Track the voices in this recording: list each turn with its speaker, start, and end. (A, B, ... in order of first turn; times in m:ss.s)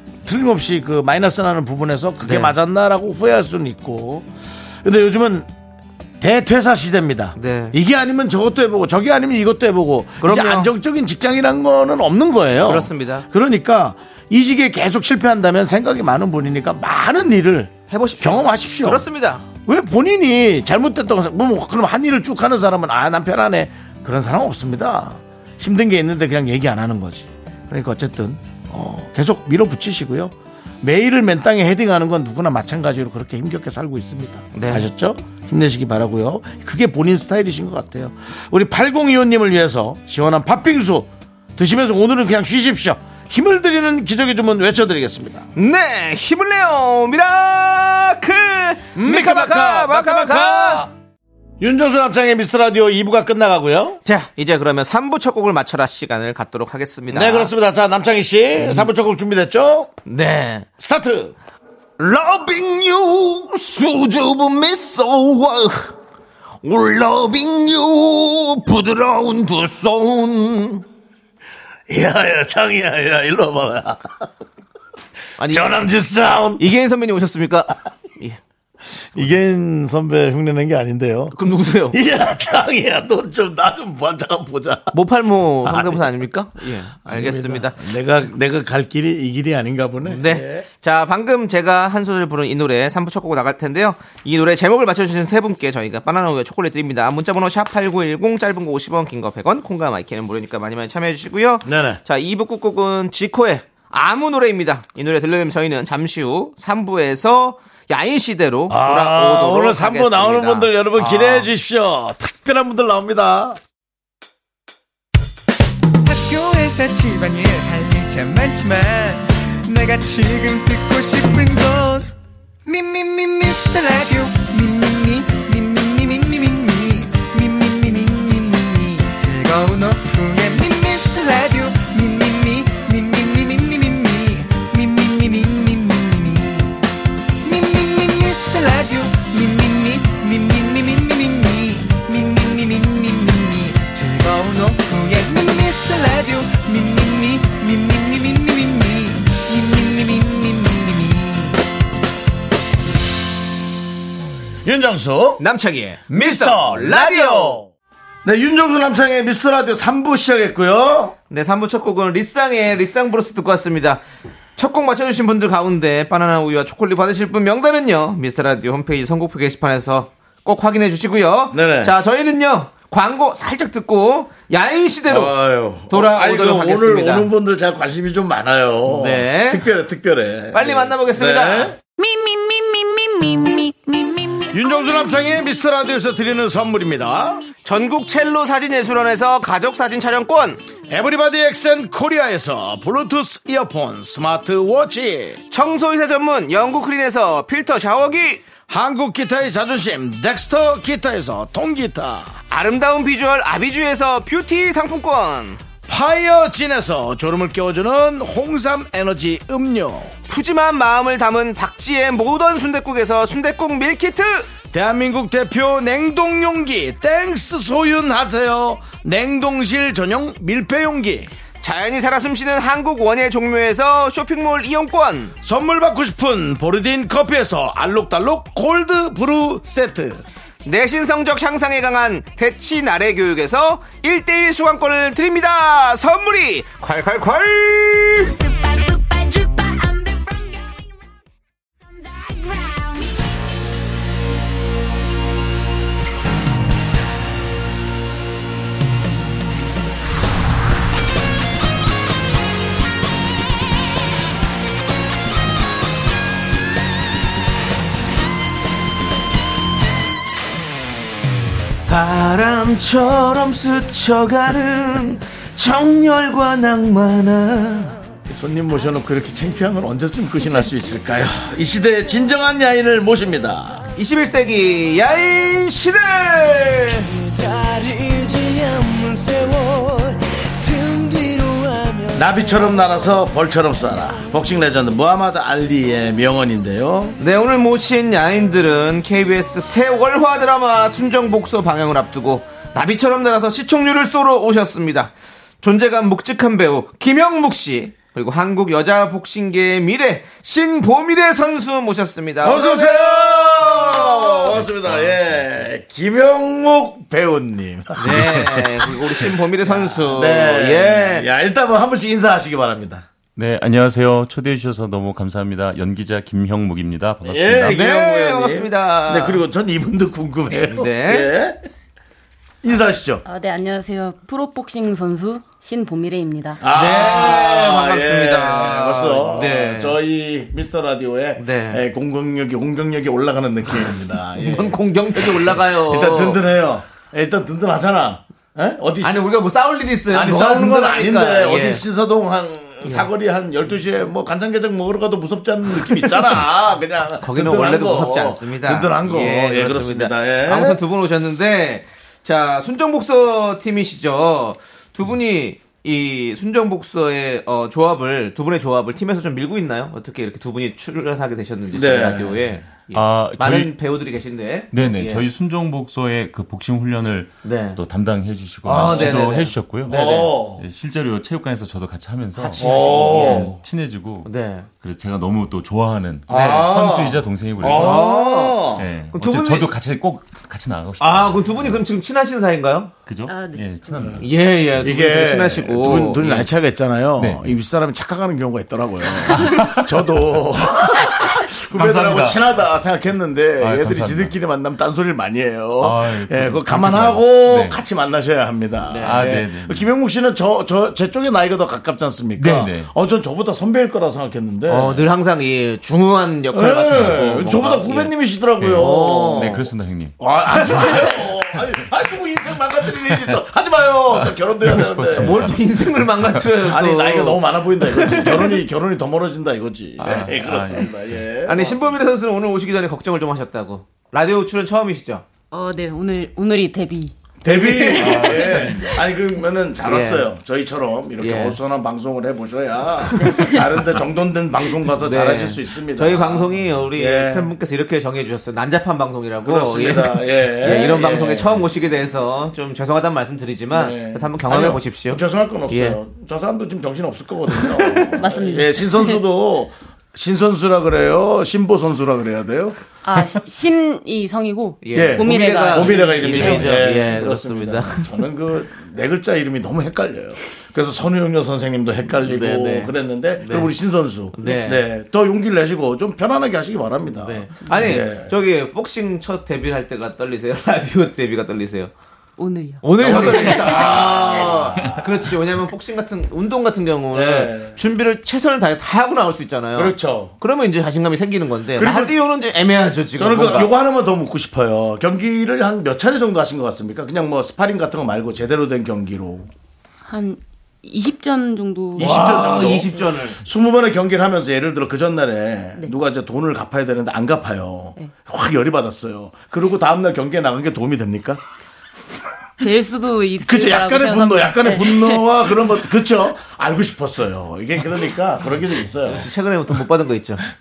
0:00.2-0:04.3 A
0:02.2-0:02.5 B
0:04.8-0:05.5 A
0:06.2-0:45.5 A
0:07.4-0:07.8 B
0:10.2-0:10.7 B
0:12.6-0:13.2 B
0:17.9-0:19.4 B
0:34.5-0:34.9 B
0:45.6-0:50.9 B
0:48.9-0:50.9 A
0:51.6-0:54.0 A
0:54.0-0:57.5 B
0:57.1-0:59.9 A
0:58.6-0:58.9 B
1:00.0-1:00.7 B
1:00.8-1:01.3 A
1:02.0-1:05.9 B
1:06.6-1:10.8 B
1:11.9-1:14.2 A
1:15.4-1:15.8 B
1:15.4-1:16.6 A
1:16.6-1:18.4 B
1:19.1-1:21.4 A
1:21.3-1:22.0 B
1:21.9-1:24.9 A
1:24.9-1:27.9 B
1:25.6-1:26.2 A
1:27.0-1:30.6 A
1:30.0-1:51.5 B
1:41.6-1:42.0 A
1:48.7-1:53.6 A
1:56.0-2:02.1 C
2:02.6-2:16.8 C
2:17.4-2:31.6 C
2:34.6-2:35.4 A
2:35.4-2:37.6 B
2:36.1-2:37.7 A
2:38.2-2:41.2 A
2:41.3-2:44.0 B
2:44.6-2:57.3 B
2:51.5-2:51.9 A
2:55.1-3:01.8 A
2:58.9-2:59.7 B
3:00.5-3:01.8 B
3:02.0-3:03.6 D
3:04.5-3:07.5 A
3:07.6-3:10.6 B
3:10.9-3:15.4 A
3:15.5-3:18.4 B
3:18.7-3:22.4 A
3:22.5-3:25.6 B
3:25.9-3:30.1 A
3:30.3-3:34.5 B
3:34.7-3:41.3 A
3:41.6-3:45.3 B
3:45.4-3:50.2 A
3:50.6-3:58.4 B
3:59.4-4:00.2 D
4:21.9-4:28.0 B
4:28.3-4:33.8 A
4:34.0-4:37.2 B
4:37.4-4:40.0 C
4:40.6-4:42.0 C
4:42.1-4:47.2 A
4:47.2-5:05.1 B
5:02.4-5:13.1 A
5:08.0-5:11.3 B
5:13.4-5:17.8 E
5:17.2-5:21.6 A
5:17.6-5:19.4 B
5:20.6-5:21.3 B
5:22.6-5:23.2 A
5:23.2-5:26.6 F
5:26.6-5:39.3 A
5:26.7-5:30.0 B
5:31.4-5:31.8 B
5:34.4-5:36.4 B
5:39.0-5:41.8 B
5:40.1-5:50.8 A
5:47.2-6:05.2 B
6:01.7-6:02.5 A
6:02.9-6:03.7 E
6:04.7-6:18.0 E
6:07.4-6:07.8 B
6:08.6-6:10.3 B
6:08.8-6:09.2 A
6:09.8-6:10.6 A
6:12.4-6:13.5 B
6:12.6-6:13.6 A
6:14.2-6:14.7 B
6:16.3-6:18.9 A
6:16.3-6:16.7 B
6:17.6-6:19.7 B
6:18.7-6:21.8 E
6:21.0-6:22.9 B
6:23.0-6:24.2 E
6:23.2-6:24.1 F
6:24.2-6:26.5 B
6:24.8-6:45.0 A
6:27.2-6:27.5 E
6:29.2-6:29.9 E
6:31.7-6:32.4 E
6:33.6-6:34.3 E
6:35.8-6:37.8 E
6:38.9-6:39.4 B
6:39.0-6:39.9 E
6:42.4-6:42.9 E
6:44.7-6:48.1 B
6:46.5-6:49.6 A
6:48.6-6:50.2 E
6:48.7-6:49.7 B
6:50.2-6:55.4 A
6:54.2-6:56.6 E
6:55.1-6:58.6 B
6:56.6-7:01.9 A
7:00.0-7:01.0 E
7:00.0-7:00.3 B
7:01.4-7:05.2 B
7:05.5-7:07.1 F
7:07.4-7:17.5 A
7:07.4-7:08.8 B
7:08.2-7:08.9 F
7:09.8-7:10.3 B
7:11.2-7:11.6 B
7:13.2-7:13.6 B
7:13.2-7:13.6 F
7:15.0-7:26.0 B
7:19.4-7:21.6 A
7:23.7-7:32.8 A
7:27.6-7:28.2 B
7:28.2-7:29.2 F
7:33.0-7:36.7 F
7:34.8-7:38.1 B
7:34.9-7:48.3 A
7:42.2-7:43.7 B
7:44.3-7:44.8 B
7:47.2-7:51.9 B
7:52.4-7:53.8 F
7:52.8-8:03.7 B
7:53.0-7:55.0 A
7:57.1-7:57.8 A
7:59.7-8:00.3 A
8:01.7-8:02.2 A
8:03.2-8:09.5 A
8:10.0-8:13.0 F
8:12.0-8:21.4 A
8:12.0-8:13.4 B
8:22.6-8:25.4 F
8:23.4-8:29.3 A
8:29.0-8:30.4 B